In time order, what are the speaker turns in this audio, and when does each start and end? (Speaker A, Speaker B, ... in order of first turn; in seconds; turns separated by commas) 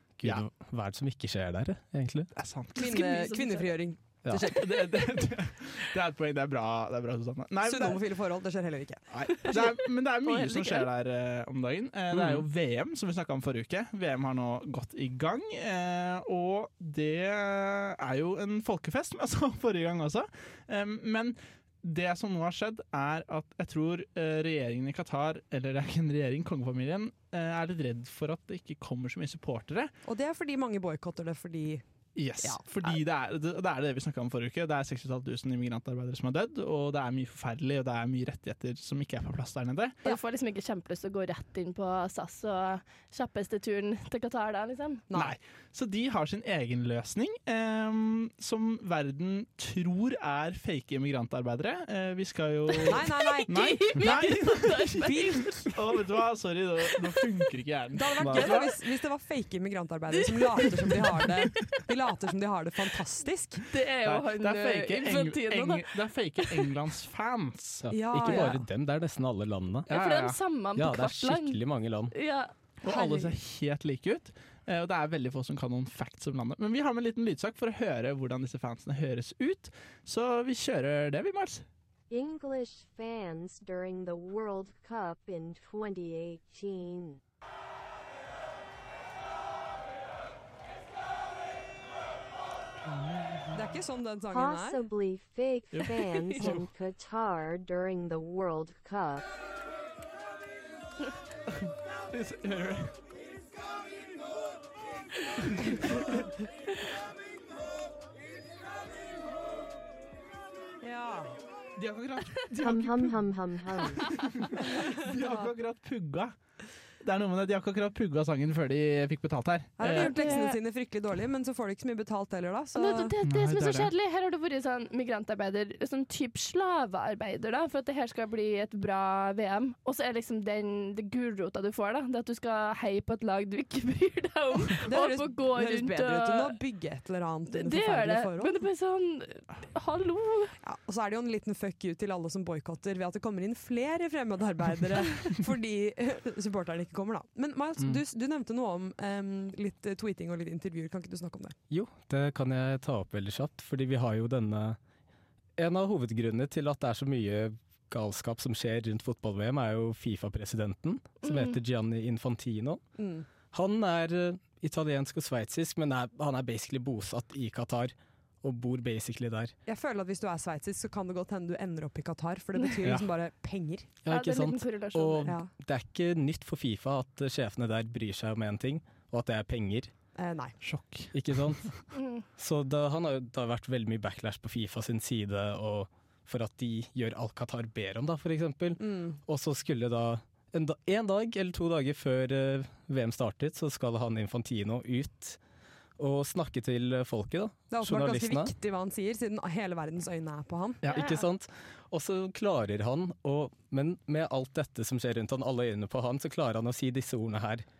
Speaker A: 0.2-2.3, Speaker B: 2.4-2.9, Speaker C: 2.7-3.7, Speaker D: 2.8-4.7, Speaker B: 4.4-8.0, Speaker D: 7.6-9.1, Speaker B: 9.1-29.9, Speaker C: 9.2-10.9, Speaker D: 30.0-31.8, Speaker B: 32.1-39.9, Speaker D: 32.4-33.0, Speaker C: 40.0-45.0, Speaker D: 45.1-45.3, Speaker B: 45.1-58.8, Speaker D: 52.8-54.1, Speaker C: 53.2-56.0, Speaker D: 55.0-55.7, Speaker C: 56.8-57.2, Speaker D: 57.9-63.6, Speaker C: 58.3-58.7, Speaker C: 60.2-60.7, Speaker C: 61.5-61.8, Speaker C: 63.6-66.7, Speaker B: 64.0-67.9, Speaker A: 67.8-69.9, Speaker D: 67.9-68.6, Speaker B: 69.9-70.4, Speaker C: 69.9-72.5, Speaker A: 70.8-72.1, Speaker B: 72.8-81.6, Speaker D: 72.8-73.4, Speaker E: 82.1-87.2, Speaker D: 93.5-94.8, Speaker E: 94.3-99.2, Speaker B: 95.7-96.7, Speaker B: 101.5-103.0, Speaker B: 105.5-106.2, Speaker D: 110.8-111.3, Speaker B: 111.8-113.2, Speaker E: 112.6-114.1, Speaker B: 114.0-116.3, Speaker B: 117.0-120.4, Speaker D: 119.8-123.2, Speaker C: 119.8-120.6, Speaker C: 122.8-136.6, Speaker B: 123.2-123.9, Speaker D: 134.8-138.6, Speaker C: 137.5-140.5, Speaker D: 140.6-151.6, Speaker A: 151.7-154.8, Speaker A: 155.6-162.8, Speaker C: 161.2-161.6, Speaker D: 163.0-163.2, Speaker A: 163.5-169.5, Speaker D: 169.7-173.9, Speaker B: 172.8-173.1, Speaker A: 174.0-179.9, Speaker C: 174.1-175.4, Speaker D: 180.2-180.6, Speaker B: 180.6-181.1, Speaker A: 181.1-181.7, Speaker C: 181.9-182.2, Speaker A: 182.4-195.4, Speaker D: 188.8-189.2, Speaker A: 196.0-198.5, Speaker D: 197.7-200.8, Speaker A: 200.8-207.6, Speaker C: 200.9-201.2